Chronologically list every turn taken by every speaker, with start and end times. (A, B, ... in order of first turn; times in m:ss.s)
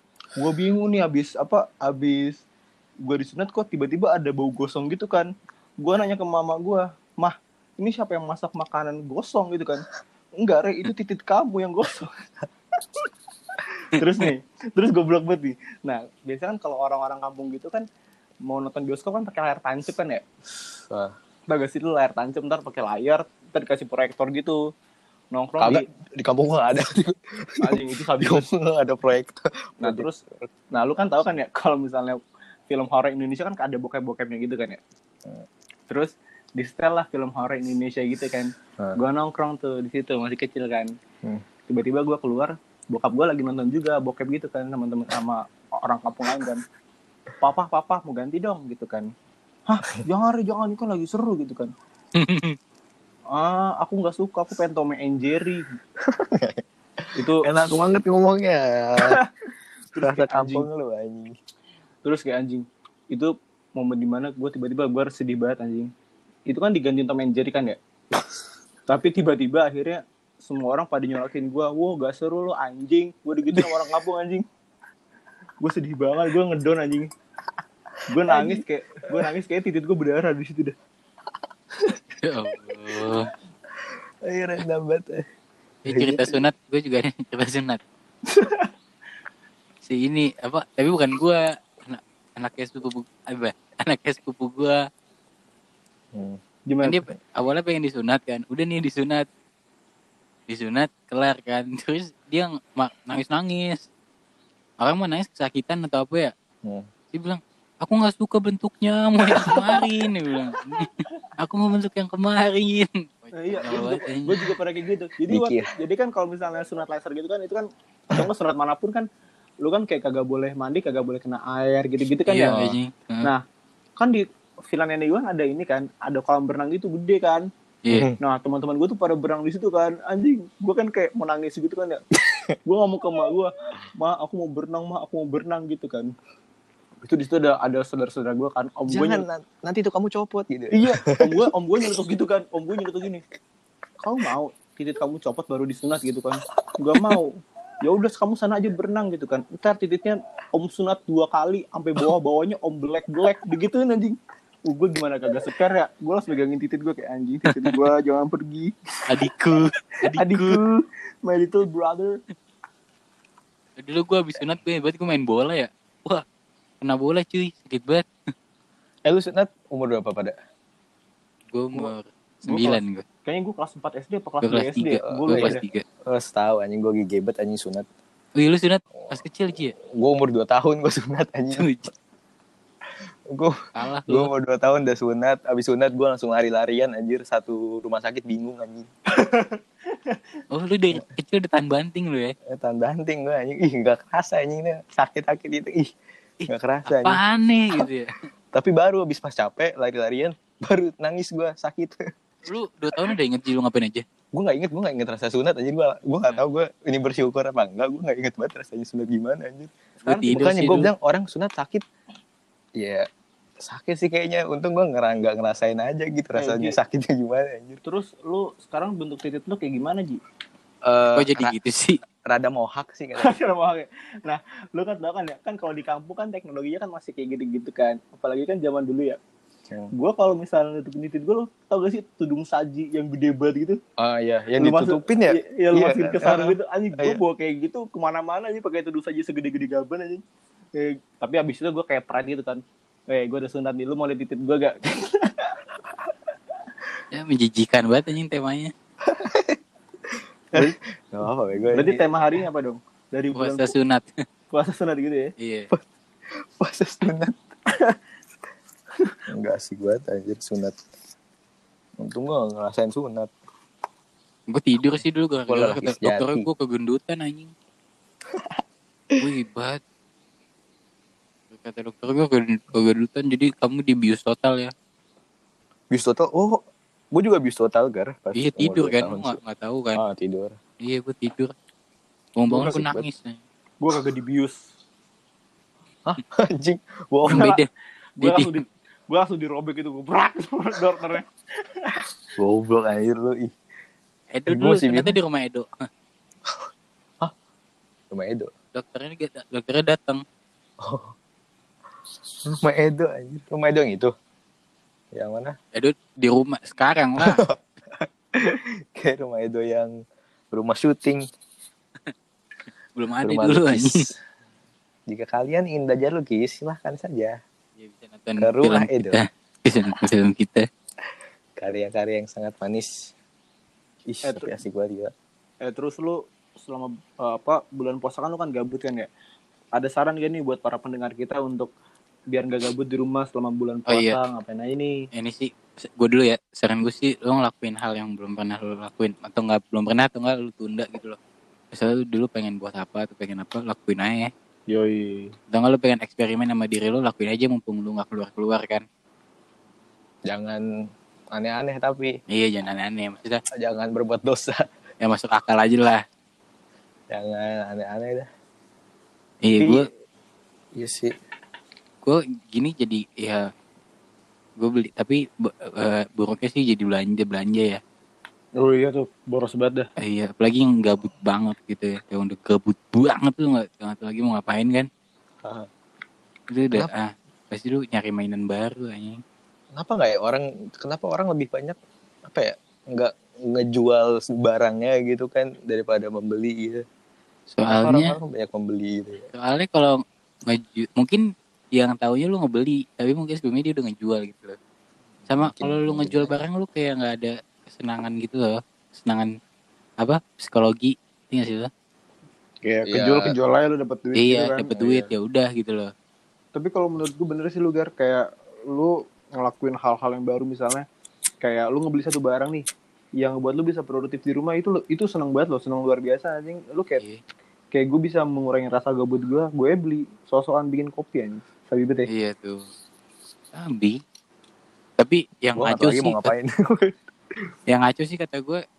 0:00.3-0:02.4 A
0:03.0-0:09.8 A
0:10.4-0:12.1 A
0:13.9-0:17.8 A
0:18.4-0:20.2 A
0:20.8-0:21.1 B
0:21.5-0:24.7 A
0:25.3-0:25.8 A
0:25.6-0:30.4 B
0:27.6-0:28.4 A
0:29.8-0:34.8 A
0:35.9-0:40.9 A
0:41.7-0:46.6 A
0:47.4-0:49.1 A
0:49.7-0:51.7 A
0:52.1-0:52.6 C
0:53.3-0:55.6 A
0:56.0-0:59.2 B
0:57.2-0:57.5 A
0:59.0-0:59.3 A
0:59.9-1:00.7 A
1:00.0-1:01.4 B
1:02.0-1:05.9 A
1:06.5-1:07.8 A
1:08.9-1:14.4 A
1:15.6-1:17.1 A
1:18.1-1:20.7 A
1:18.2-1:19.2 B
1:22.2-1:23.3 C
1:23.8-1:25.3 B
1:25.8-1:27.8 C
1:25.9-1:26.4 B
1:28.3-1:28.7 A
1:29.8-1:34.8 C
1:36.1-1:36.4 B
1:36.7-1:37.0 A
1:36.8-1:39.3 C
1:40.5-1:43.9 C
1:44.8-1:46.3 C
1:47.1-1:54.5 C
1:49.3-1:49.8 B
1:53.3-1:59.0 A
1:55.3-1:55.7 B
1:59.6-2:02.7 A
2:02.3-2:03.3 C
2:02.5-2:02.7 B
2:04.0-2:07.5 A
2:07.8-2:08.1 C
2:07.9-2:08.2 B
2:08.2-2:12.0 A
2:12.6-2:16.1 A
2:17.0-2:19.2 A
2:18.9-2:21.5 B
2:20.7-2:23.2 A
2:24.0-2:39.5 A
2:37.5-2:37.8 C
2:39.1-2:40.6 C
2:40.1-2:42.2 A
2:43.8-2:46.2 C
2:46.8-2:48.0 C
2:49.0-2:50.3 B
2:51.5-2:53.0 C
2:52.5-2:55.6 A
2:54.4-2:55.8 C
2:55.1-2:57.9 B
2:58.4-2:59.8 C
2:59.8-3:01.7 B
3:01.6-3:01.9 C
3:03.3-3:08.9 B
3:03.8-3:04.3 C
3:09.1-3:10.2 A
3:10.5-3:12.3 C
3:12.5-3:15.9 B
3:16.4-3:18.2 C
3:16.5-3:17.2 B
3:18.5-3:22.1 B
3:22.4-3:24.0 C
3:24.3-3:29.7 B
3:30.0-3:30.8 A
3:30.0-3:30.9 C
3:30.3-3:31.8 B
3:32.8-3:33.1 B
3:33.6-3:37.8 B
3:36.3-3:36.8 A
3:37.8-3:40.2 A
3:40.8-3:41.6 B
3:41.1-3:42.0 C
3:42.2-3:43.4 B
3:43.2-3:49.2 A
3:49.9-3:53.8 A
3:54.0-3:57.2 B
3:54.6-4:00.2 A
4:00.7-4:05.6 A
4:07.1-4:08.7 C
4:09.0-4:09.6 B
4:10.1-4:12.0 B
4:11.7-4:13.7 A
4:13.3-4:14.2 C
4:14.5-4:15.3 A
4:15.4-4:15.7 C
4:16.4-4:17.4 B
4:17.7-4:18.0 A
4:19.3-4:20.8 B
4:22.0-4:23.3 B
4:24.5-4:27.5 C
4:25.5-4:26.5 B
4:29.2-4:29.8 C
4:31.5-4:34.7 C
4:35.9-4:39.4 B
4:38.3-4:40.0 C
4:39.9-4:40.6 B
4:40.8-4:41.5 C
4:42.4-4:43.4 C
4:42.5-4:42.8 A
4:42.6-4:43.0 B
4:43.8-4:44.6 A
4:46.0-4:47.6 B
4:47.3-4:47.7 C
4:47.3-4:47.6 A
4:48.2-4:52.0 A
4:48.2-4:48.5 C
4:52.4-4:53.5 B
4:54.3-4:55.8 C
4:54.5-4:55.2 B
4:58.1-4:58.5 B
4:58.7-5:00.2 C
5:00.8-5:01.1 B
5:02.4-5:04.1 B
5:05.1-5:05.6 B
5:05.7-5:07.4 C
5:07.2-5:09.9 B
5:10.5-5:11.2 B
5:13.0-5:14.0 C
5:13.2-5:14.2 B
5:15.1-5:17.4 B
5:17.8-5:20.6 C
5:18.4-5:19.2 B
5:21.6-5:23.1 B
5:24.1-5:25.1 B
5:24.2-5:24.6 A
5:25.6-5:29.1 A
5:29.7-5:31.7 A
5:32.3-5:34.9 A
5:33.9-5:34.2 C
5:35.1-5:41.2 C
5:41.7-5:44.3 C
5:44.7-5:45.3 A
5:45.5-5:48.8 C
5:50.3-5:50.6 B
5:51.3-5:52.1 B
5:52.3-5:53.4 C
5:53.5-5:54.7 B
5:55.0-5:56.0 C
5:57.1-5:58.3 B
5:59.4-5:59.9 C
6:00.7-6:01.1 B
6:02.0-6:03.5 C
6:04.6-6:07.8 C
6:08.6-6:09.9 A
6:10.0-6:14.9 C
6:15.4-6:15.7 B
6:16.5-6:19.2 C
6:19.8-6:26.8 B
6:27.5-6:28.2 C
6:27.7-6:29.3 B
6:29.3-6:34.6 C
6:35.3-6:36.3 B
6:35.3-6:39.3 C
6:40.0-6:41.7 C
6:42.6-6:44.8 A
6:42.8-6:43.4 B
6:44.1-6:45.9 C
6:44.7-6:45.1 B
6:46.5-6:50.8 A
6:51.4-6:52.6 A
6:53.2-6:57.0 A
6:57.7-7:02.1 A
7:02.1-7:02.7 C
7:03.5-7:04.0 C
7:05.0-7:06.3 C
7:05.6-7:06.9 B
7:07.7-7:08.6 C